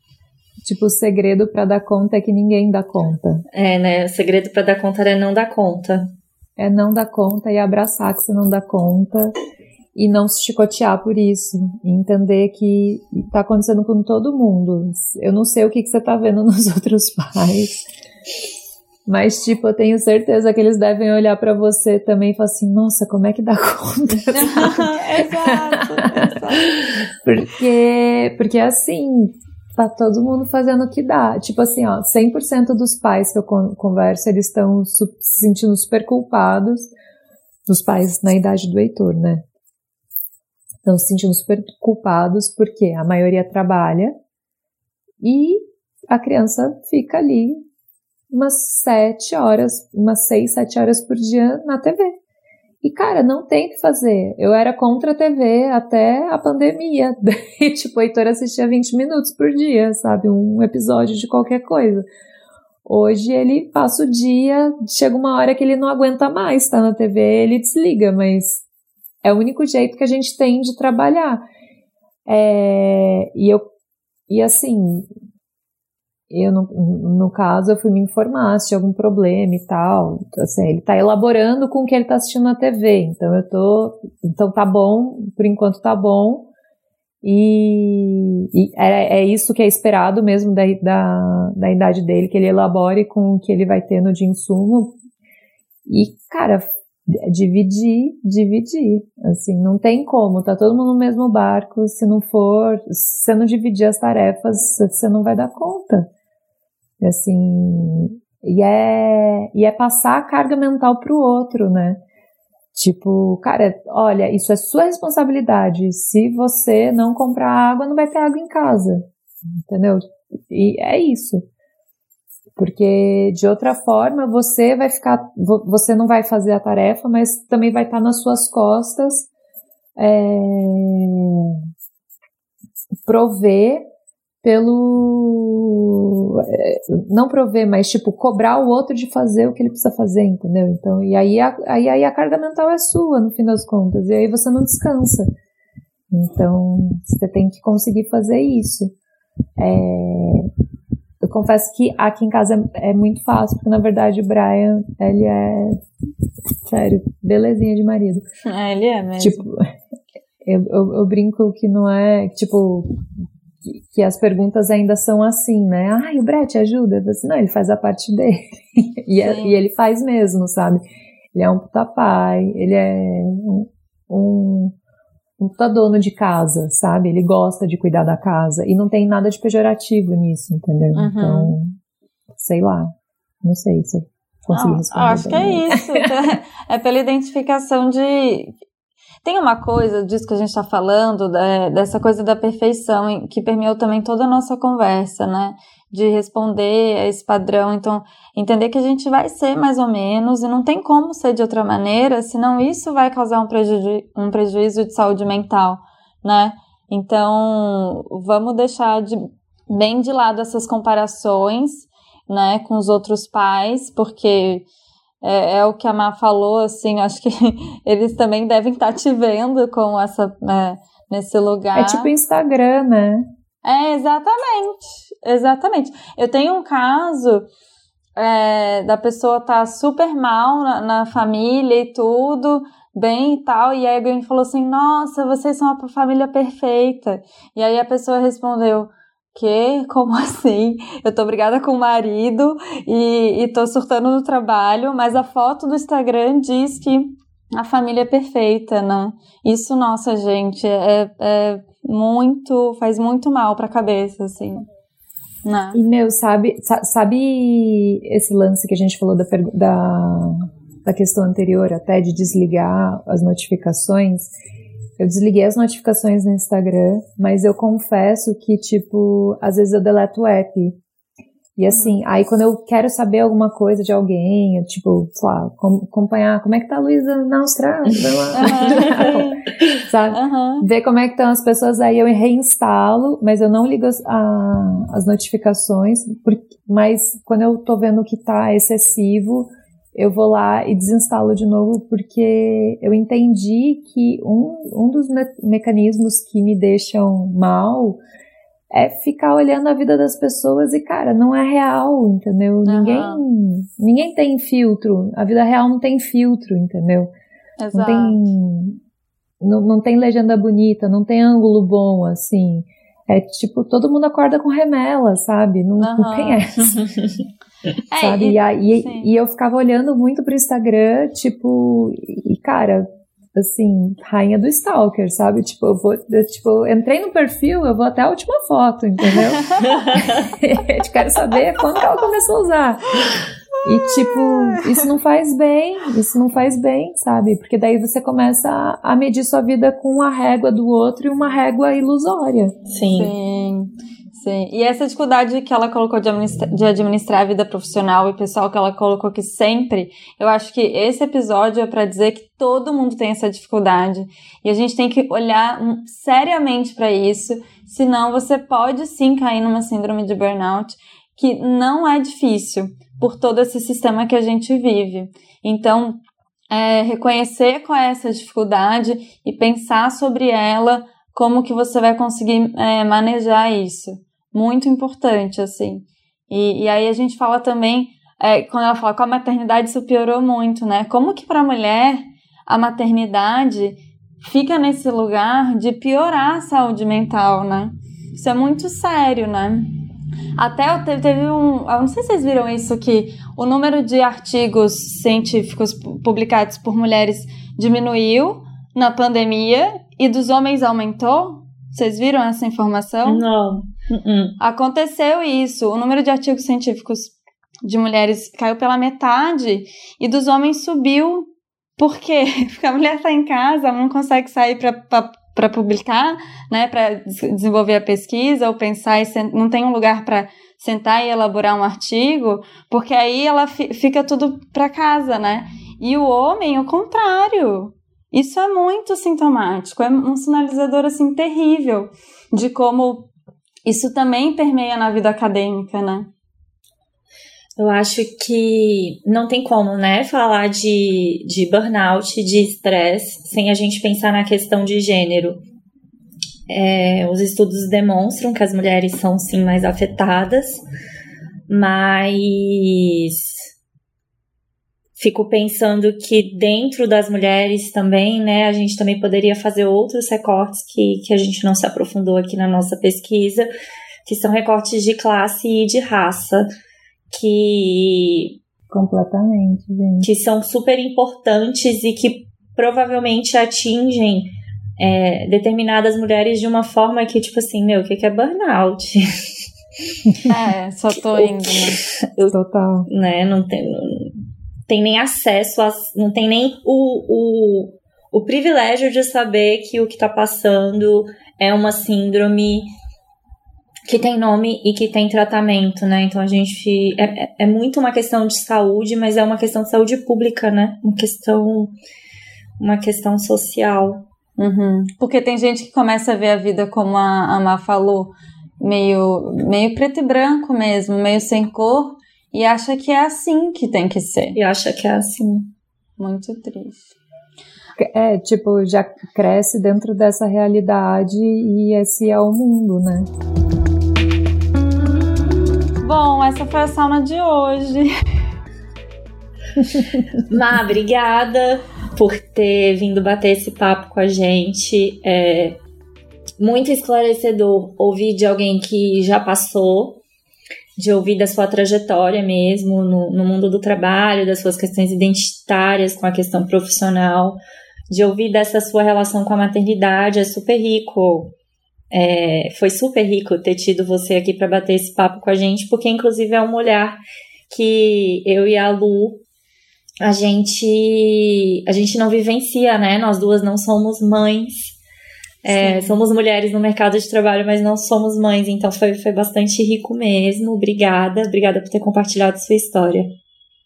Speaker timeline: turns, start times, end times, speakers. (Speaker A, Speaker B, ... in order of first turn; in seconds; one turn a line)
Speaker A: 0.6-3.4
Speaker B: 3.5-6.1
Speaker A: 6.6-9.3
Speaker A: 9.9-17.8
Speaker A: 19.1-36.9
Speaker C: 24.3-26.8
Speaker A: 37.7-39.4
Speaker A: 40.8-44.1
Speaker A: 45.2-47.6
Speaker A: 48.3-52.1
Speaker A: 52.8-62.0
Speaker A: 62.8-68.6
Speaker A: 69.2-71.4
Speaker A: 72.3-73.7
Speaker A: 74.3-75.1
Speaker A: 76.3-86.5
Speaker A: 87.2-95.0
Speaker A: 95.8-106.1
Speaker A: 107.0-112.0
Speaker A: 112.7-119.0
Speaker A: 119.7-121.4
Speaker A: 122.6-129.3
Speaker A: 130.0-131.6
Speaker A: 133.1-133.8
Speaker A: 134.4-145.3
Speaker A: 146.1-148.9
Speaker A: 149.6-150.5
Speaker A: 151.2-155.8
Speaker A: 156.6-158.2
Speaker C: 158.4-159.4
Speaker A: 159.2-159.6
Speaker A: 160.4-162.9
Speaker A: 163.6-174.8
Speaker C: 169.2-169.6
Speaker A: 175.4-181.8
Speaker C: 180.9-181.5
Speaker A: 182.3-186.1
Speaker C: 184.5-188.5
Speaker C: 189.2-214.6
Speaker C: 215.2-222.1
Speaker A: 221.7-223.2
Speaker C: 223.6-227.5
Speaker C: 228.2-254.7
Speaker C: 255.4-255.8
Speaker A: 255.7-264.3
Speaker A: 265.0-270.8
Speaker A: 271.6-298.0
Speaker C: 271.7-272.0
Speaker C: 278.3-279.4
Speaker B: 278.7-279.0
Speaker C: 280.1-280.7
Speaker A: 298.7-307.1
Speaker C: 302.6-303.2
Speaker C: 307.6-308.3
Speaker A: 307.7-308.8
Speaker A: 309.4-316.8
Speaker C: 315.8-316.4
Speaker B: 316.6-317.2
Speaker C: 317.9-319.1
Speaker A: 318.0-333.1
Speaker C: 329.1-329.9
Speaker B: 329.8-330.0
Speaker A: 333.6-342.5
Speaker C: 333.7-334.9
Speaker B: 342.7-343.1
Speaker C: 342.9-366.0
Speaker C: 366.5-389.7
Speaker C: 390.4-403.2
Speaker B: 403.1-404.4
Speaker C: 404.4-433.1
Speaker C: 433.6-436.1
Speaker B: 437.6-445.4
Speaker B: 446.5-450.6
Speaker B: 451.5-453.4
Speaker B: 455.0-463.5
Speaker B: 464.1-466.5
Speaker B: 467.1-468.4
Speaker A: 468.7-470.1
Speaker B: 470.0-479.1
Speaker C: 480.2-481.8
Speaker B: 480.9-482.4
Speaker A: 482.3-482.9
Speaker B: 482.9-492.7
Speaker B: 493.9-501.7
Speaker B: 502.6-504.0
Speaker C: 504.4-514.4
Speaker B: 514.3-515.5
Speaker C: 516.0-516.9
Speaker A: 517.8-523.1
Speaker C: 525.8-527.9
Speaker B: 530.2-535.6
Speaker B: 536.4-540.0
Speaker B: 540.8-547.4
Speaker B: 547.9-551.3
Speaker B: 551.9-557.0
Speaker B: 557.5-559.2
Speaker B: 560.0-564.8
Speaker B: 565.4-573.1
Speaker C: 565.5-566.0